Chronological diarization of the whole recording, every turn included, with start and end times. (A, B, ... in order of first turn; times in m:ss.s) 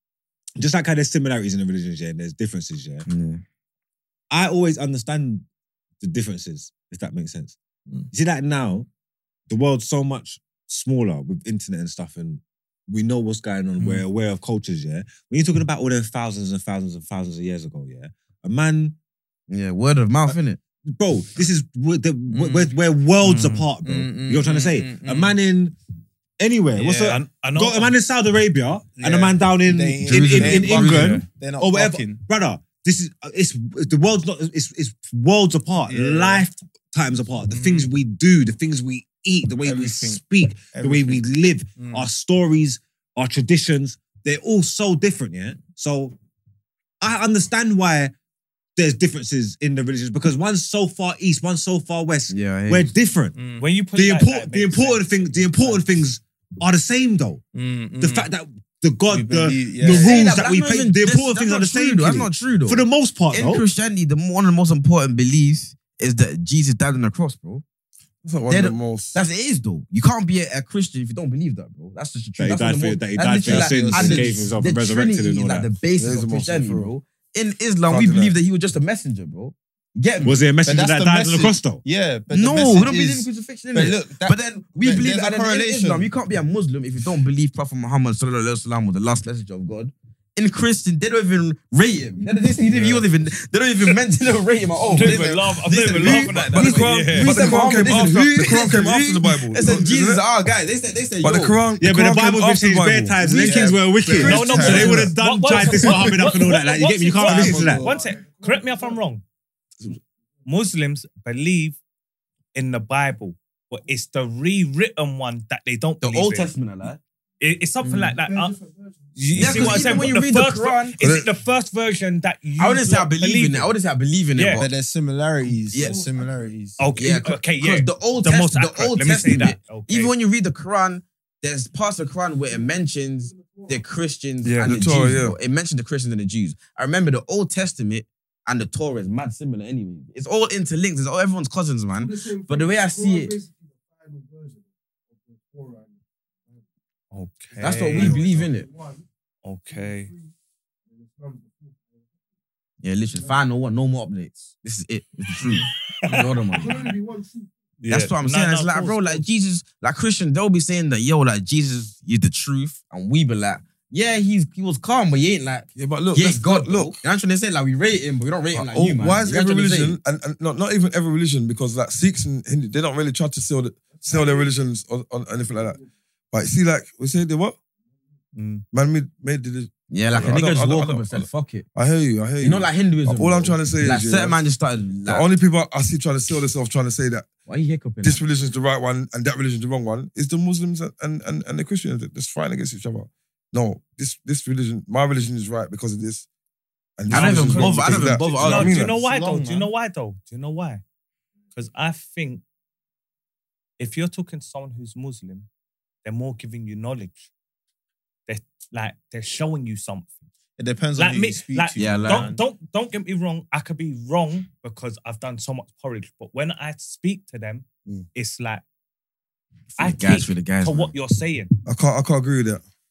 0:00.6-0:03.0 A
0:03.1-0:03.4 B
0:04.3-0:05.4 A
0:06.0-0:07.6 A
0:08.1-0:08.9 A
0:09.5-0:19.0 A
0:19.5-0:20.6 B
0:20.9-0:25.8 A
0:22.3-0:22.7 C
0:23.2-0:23.7 D
0:23.8-0:25.4 C
0:26.4-0:46.2 A
0:26.8-0:27.9 D
0:29.0-0:32.2 C
0:30.1-0:31.2 E
0:35.9-0:36.5 C
0:37.5-0:37.9 C
0:39.6-0:40.2 C
0:40.7-0:41.2 C
0:41.8-0:42.1 C
0:47.0-0:48.1 A
0:48.8-0:53.4 A
0:52.3-0:52.9 B
0:53.4-0:53.6 C
0:53.6-0:55.8 D
0:53.9-0:57.4 A
0:57.6-0:58.3 C
0:58.0-1:03.6 A
0:59.1-1:00.2 C
0:59.8-1:07.6 B
1:08.2-1:09.2 E
1:08.5-1:20.4 B
1:12.4-1:15.7 A
1:13.4-1:14.5 C
1:16.0-1:16.9 E
1:17.9-1:18.3 E
1:20.2-1:21.8 A
1:20.6-1:26.1 C
1:22.3-1:41.6 B
1:32.8-1:33.0 E
1:34.9-1:35.4 C
1:34.9-1:37.5 D
1:36.0-1:40.2 E
1:36.6-1:36.9 A
1:41.2-1:43.7 E
1:41.8-1:47.9 A
1:43.2-1:46.2 C
1:44.2-1:49.2 D
1:47.2-1:48.1 C
1:50.5-1:51.8 D
1:52.6-1:56.5 D
1:56.0-1:57.0 B
1:57.4-1:58.6 D
1:57.8-1:58.2 C
1:59.2-2:03.7 D
1:59.3-2:01.0 B
1:59.4-1:59.7 E
2:01.0-2:01.3 E
2:02.6-2:04.7 B
2:04.4-2:04.6 D
2:04.6-2:06.8 C
2:05.7-2:06.0 B
2:06.8-2:10.1 D
2:07.0-2:23.4 B
2:14.4-2:14.8 D
2:14.6-2:15.4 E
2:27.1-2:28.3 D
2:27.6-2:28.7 B
2:29.4-2:30.1 D
2:32.8-2:36.9 B
2:36.0-2:36.9 D
2:37.8-2:39.2 D
2:37.9-2:50.0 B
2:45.8-2:47.0 E
2:48.5-2:55.8 E
2:56.3-2:57.6 E
2:58.4-2:58.6 D
2:58.7-3:04.4 E
2:59.9-3:01.7 B
3:02.4-3:05.3 B
3:05.1-3:07.3 E
3:07.5-3:08.3 B
3:08.0-3:16.3 E
3:17.0-3:19.0 E
3:17.1-3:18.9 B
3:17.1-3:20.8 D
3:18.8-3:19.7 C
3:21.6-3:22.4 D
3:23.8-3:25.5 D
3:26.0-3:27.3 D
3:28.3-3:30.2 D
3:30.6-3:32.4 C
3:31.0-3:38.6 D
3:31.8-3:32.3 B
3:39.8-3:40.9 B
3:39.8-3:41.6 D
3:41.7-3:42.6 E